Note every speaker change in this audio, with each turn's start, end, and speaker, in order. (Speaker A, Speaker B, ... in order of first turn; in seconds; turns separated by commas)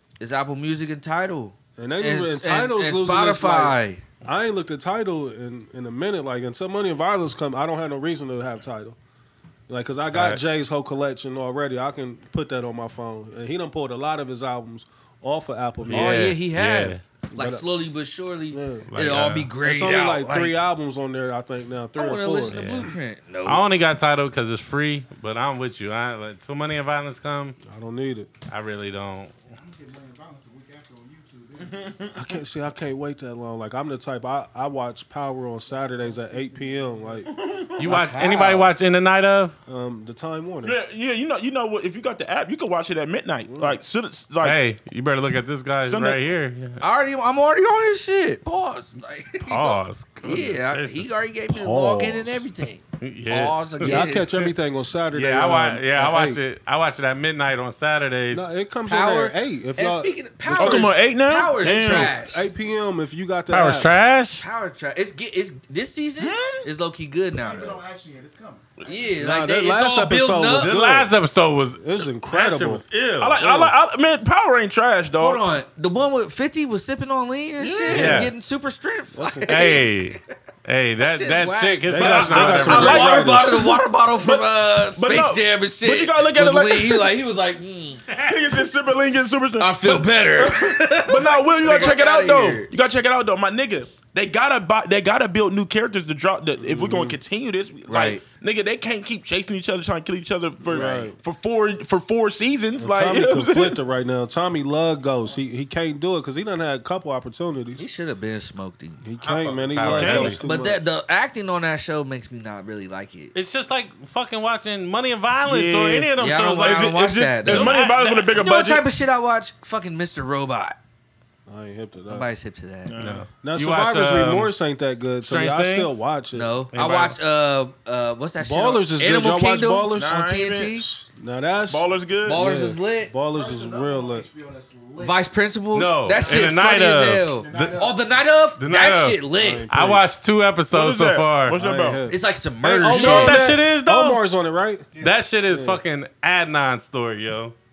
Speaker A: 0.2-4.1, Speaker B: 1.8-9.0, Speaker B: 9.7-16.3, Speaker C: 10.1-10.5, Speaker C: 15.8-17.0, Speaker A: 15.9-20.6, Speaker B: 17.3-17.6, Speaker B: 18.5-18.9, Speaker C: 18.9-19.5, Speaker B: 19.6-22.7, Speaker A: 21.9-23.6, Speaker C: 22.5-27.6, Speaker B: 27.6-28.3, Speaker C: 28.5-29.4, Speaker D: 29.6-32.1, Speaker E: 31.6-32.3, Speaker B: 32.1-37.3, Speaker D: 35.7-37.6, Speaker E: 37.3-38.0, Speaker C: 37.8-39.6, Speaker A: 37.8-38.7, Speaker B: 39.7-40.8, Speaker E: 40.6-44.6, Speaker B: 43.5-43.8, Speaker C: 44.4-46.8, Speaker E: 45.8-46.2, Speaker A: 46.8-54.3, Speaker C: 49.5-51.1, Speaker B: 51.5-52.5, Speaker C: 53.0-54.5, Speaker B: 53.8-56.4, Speaker C: 55.1-58.5, Speaker B: 58.3-60.9, Speaker A: 58.9-62.5, Speaker E: 60.5-62.1, Speaker B: 61.7-63.9, Speaker C: 63.5-64.5, Speaker A: 64.4-67.8, Speaker E: 66.2-66.6, Speaker D: 67.3-69.1, Speaker A: 68.8-70.8, Speaker B: 69.2-71.1, Speaker C: 70.5-73.5, Speaker B: 71.8-72.8, Speaker E: 73.2-75.4, Speaker B: 73.4-73.7, Speaker A: 75.2-80.0, Speaker E: 77.6-78.3, Speaker C: 77.9-78.3, Speaker B: 79.1-79.8, Speaker C: 79.5-83.2, Speaker A: 81.0-88.0, Speaker B: 81.9-83.7, Speaker E: 82.3-83.6, Speaker E: 84.2-87.1, Speaker C: 88.1-88.4, Speaker E: 88.3-103.8, Speaker A: 89.6-92.7, Speaker B: 96.6-97.2, Speaker A: 97.9-98.2, Speaker B: 100.7-101.2, Speaker B: 102.8-107.8, Speaker A: 107.8-109.0, Speaker B: 109.0-110.8, Speaker C: 109.2-110.4, Speaker E: 109.8-110.4, Speaker A: 110.4-113.3, Speaker C: 113.3-118.3, Speaker E: 115.5-118.9, Speaker A: 116.2-117.8, Speaker A: 118.3-120.8, Speaker B: 121.5-122.3, Speaker A: 122.1-123.0, Speaker E: 122.9-123.3, Speaker C: 123.0-124.5, Speaker B: 123.4-126.5, Speaker C: 125.2-126.0, Speaker A: 126.3-130.9, Speaker C: 126.7-127.2, Speaker B: 128.4-130.2, Speaker E: 129.9-130.8, Speaker B: 130.7-134.3, Speaker E: 131.7-132.4, Speaker A: 132.2-133.1, Speaker D: 133.3-135.2, Speaker A: 135.0-139.7, Speaker C: 135.7-137.7, Speaker D: 136.1-138.2, Speaker C: 138.6-141.6, Speaker B: 139.4-140.0, Speaker E: 140.7-142.1, Speaker B: 141.5-144.9, Speaker A: 142.1-143.4, Speaker C: 142.8-144.2, Speaker E: 142.9-143.4, Speaker D: 144.9-145.2, Speaker C: 145.0-147.6, Speaker B: 145.5-145.8